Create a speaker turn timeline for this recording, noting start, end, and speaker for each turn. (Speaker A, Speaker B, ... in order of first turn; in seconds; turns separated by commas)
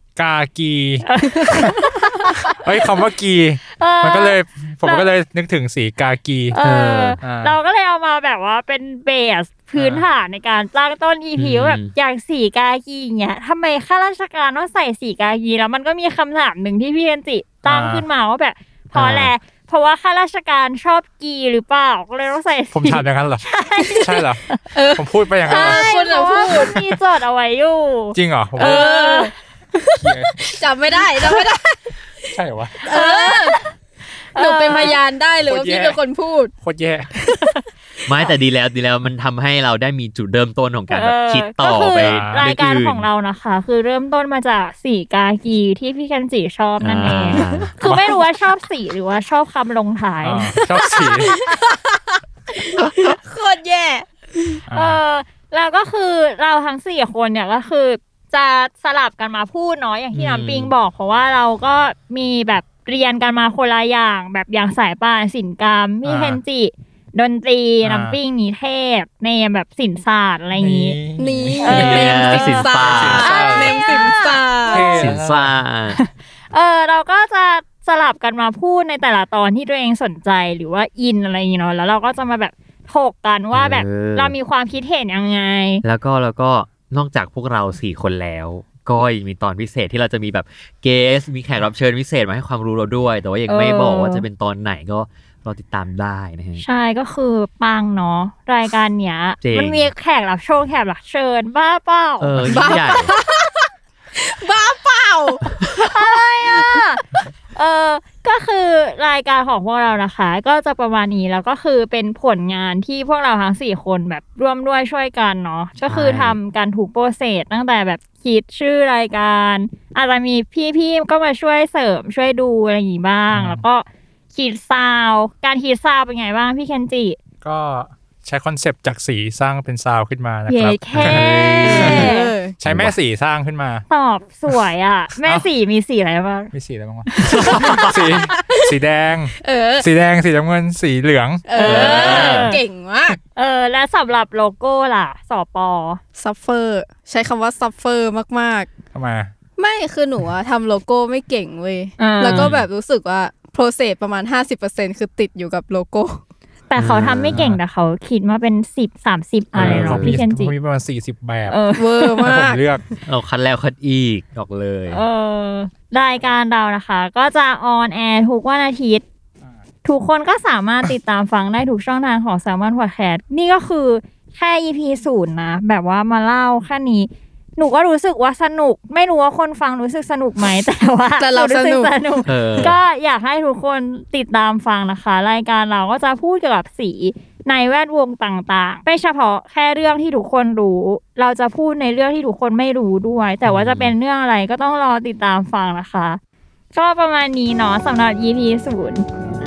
Speaker A: 0.1-6.6, Speaker B: 1.0-2.5, Speaker B: 3.7-5.1, Speaker B: 6.5-24.6, Speaker C: 6.6-7.2, Speaker A: 7.2-7.6, Speaker A: 9.7-10.0, Speaker C: 11.4-11.9, Speaker A: 17.6-18.1, Speaker C: 18.9-19.3, Speaker A: 22.7-25.9, Speaker D: 24.7-26.8, Speaker B: 25.5-29.3, Speaker A: 28.1-28.8, Speaker D: 28.6-31.9, Speaker A: 29.9-30.4, Speaker A: 32.3-32.8, Speaker D: 32.8-33.5, Speaker B: 32.9-33.7, Speaker B: 34.3-35.0, Speaker D: 34.4-36.5, Speaker A: 35.4-36.0, Speaker A: 36.6-37.1, Speaker D: 37.1-37.6, Speaker C: 38.0-43.1, Speaker B: 40.9-50.5, Speaker A: 41.9-42.4, Speaker C: 46.8-47.7, Speaker A: 47.0-48.1, Speaker A: 50.2-51.3, Speaker D: 50.5-54.6, Speaker A: 54.7-55.0, Speaker B: 54.7-71.0, Speaker C: 60.1-60.7, Speaker A: 66.0-66.4, Speaker A: 67.8-68.2, Speaker A: 70.5-73.8, Speaker D: 71.2-74.9, Speaker B: 71.6-75.2, Speaker C: 71.6-73.3, Speaker A: 74.6-75.5, Speaker C: 74.9-76.0, Speaker B: 76.0-85.8, Speaker C: 83.5-84.3, Speaker C: 85.8-96.6, Speaker B: 93.5-94.2, Speaker B: 96.6-102.8, Speaker C: 99.4-99.9, Speaker C: 102.2-103.1, Speaker D: 102.5-106.6, Speaker B: 105.8-107.0, Speaker B: 107.5-127.2, Speaker C: 115.8-116.4, Speaker A: 123.3-123.6, Speaker A: 127.4-132.1, Speaker B: 130.5-132.3, Speaker C: 130.9-131.9, Speaker D: 131.6-132.6, Speaker A: 132.6-133.8, Speaker C: 132.6-132.9, Speaker B: 133.9-136.5, Speaker A: 135.2-135.5, Speaker A: 136.5-142.5, Speaker B: 137.3-137.8, Speaker C: 137.4-137.8, Speaker D: 139.4-139.9, Speaker D: 141.4-143.2, Speaker B: 141.6-142.6, Speaker C: 141.6-142.4, Speaker B: 143.3-146.0, Speaker D: 146.2-148.7, Speaker A: 148.9-149.3, Speaker D: 149.6-156.2, Speaker B: 152.0-152.5, Speaker C: 152.2-152.7, Speaker B: 156.7-160.5, Speaker C: 156.8-157.4, Speaker A: 157.3-157.6, Speaker A: 159.5-161.6, Speaker C: 159.6-160.1, Speaker B: 161.5-162.2, Speaker D: 161.8-162.6, Speaker A: 162.2-162.8, Speaker C: 163.1-165.0, Speaker B: 164.9-169.0, Speaker B: 169.8-196.2, Speaker D: 181.2-182.2, Speaker C: 182.2-182.8, Speaker C: 193.4-193.9, Speaker B: 196.7-199.0